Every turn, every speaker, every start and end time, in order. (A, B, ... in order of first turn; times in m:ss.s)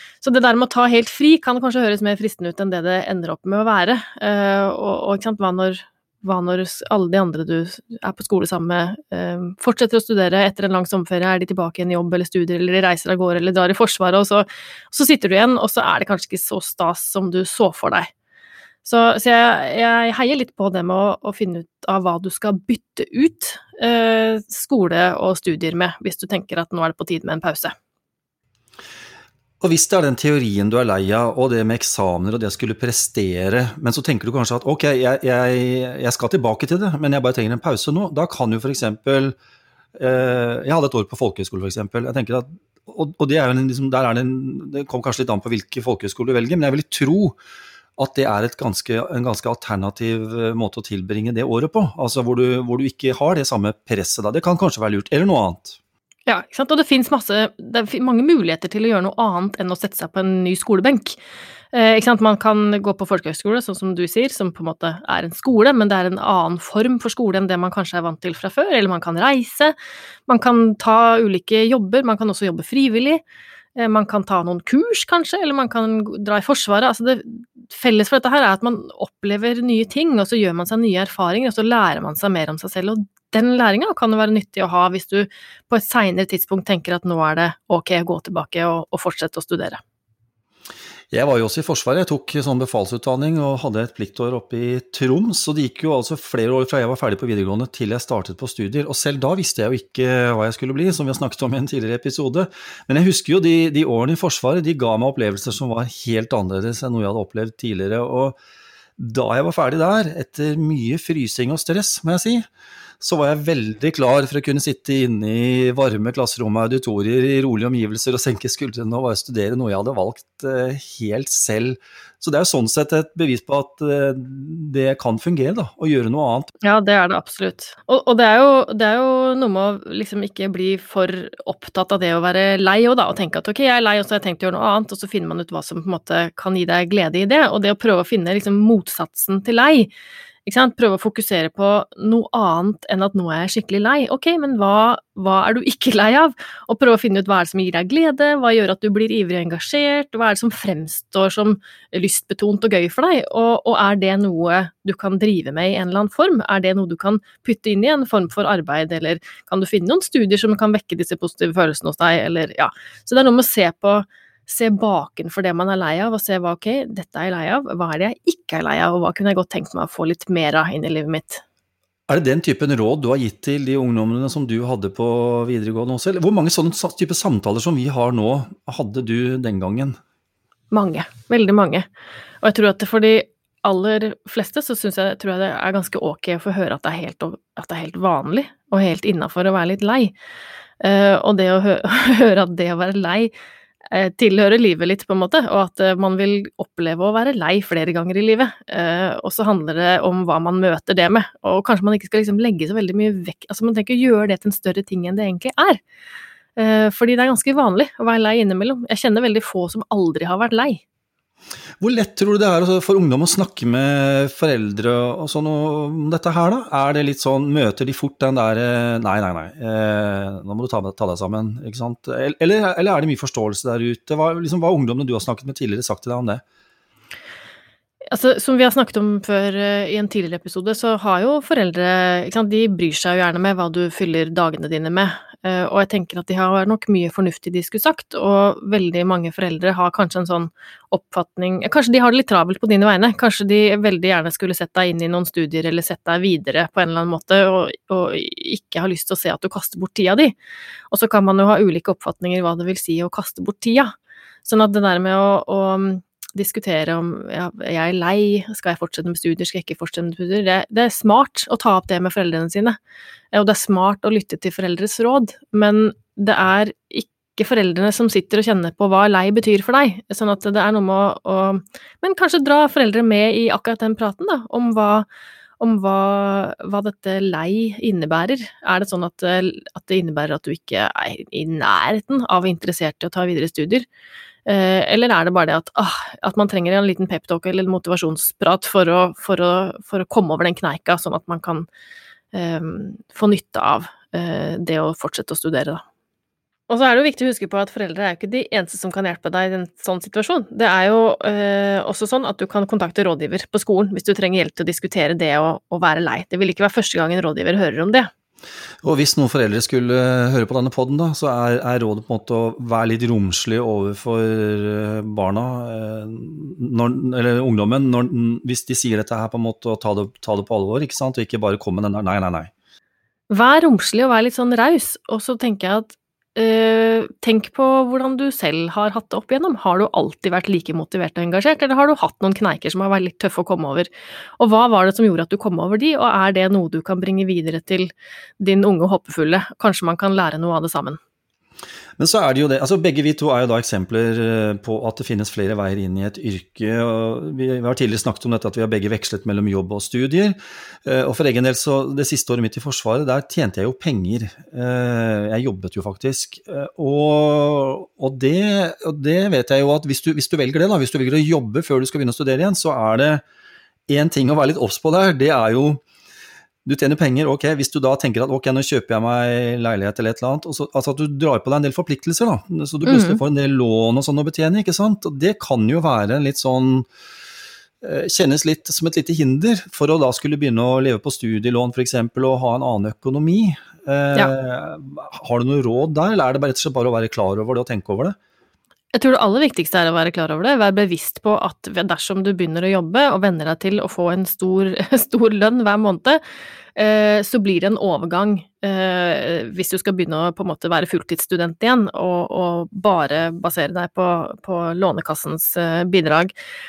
0:00.2-0:18.1 A
0:18.8-0:27.7 A
0:29.6-0:39.3 B
0:40.0-0:47.4 B
0:48.0-0:55.8 B
0:56.2-1:01.2 A
1:01.7-1:09.8 A
1:10.3-1:13.2 A
1:13.8-1:29.8 A
1:31.1-1:48.4 B
1:49.0-1:52.5 B
1:53.0-2:06.5 B
2:06.6-2:19.9 A
2:20.4-2:51.4 A
2:52.1-3:00.0 B
3:00.7-3:01.9 A
3:02.4-3:10.1 A
3:10.8-3:13.3 A
3:13.9-3:25.8 A
3:26.6-3:30.8 A
3:31.8-3:46.4 B
3:48.1-4:10.4 A
4:10.9-4:13.9 A
4:14.4-4:22.8 A
4:23.3-4:35.1 A
4:35.6-4:43.8 A
4:44.4-4:51.7 A
4:52.3-4:55.8 A
4:56.7-5:08.1 A
5:08.8-5:22.5 B
5:23.3-5:41.0 A
5:42.0-6:03.2 B
6:03.9-6:05.8 B
6:06.6-6:16.9 B
6:12.8-6:13.2 A
6:17.8-6:28.2 B
6:28.9-6:36.2 A
6:36.8-6:46.3 A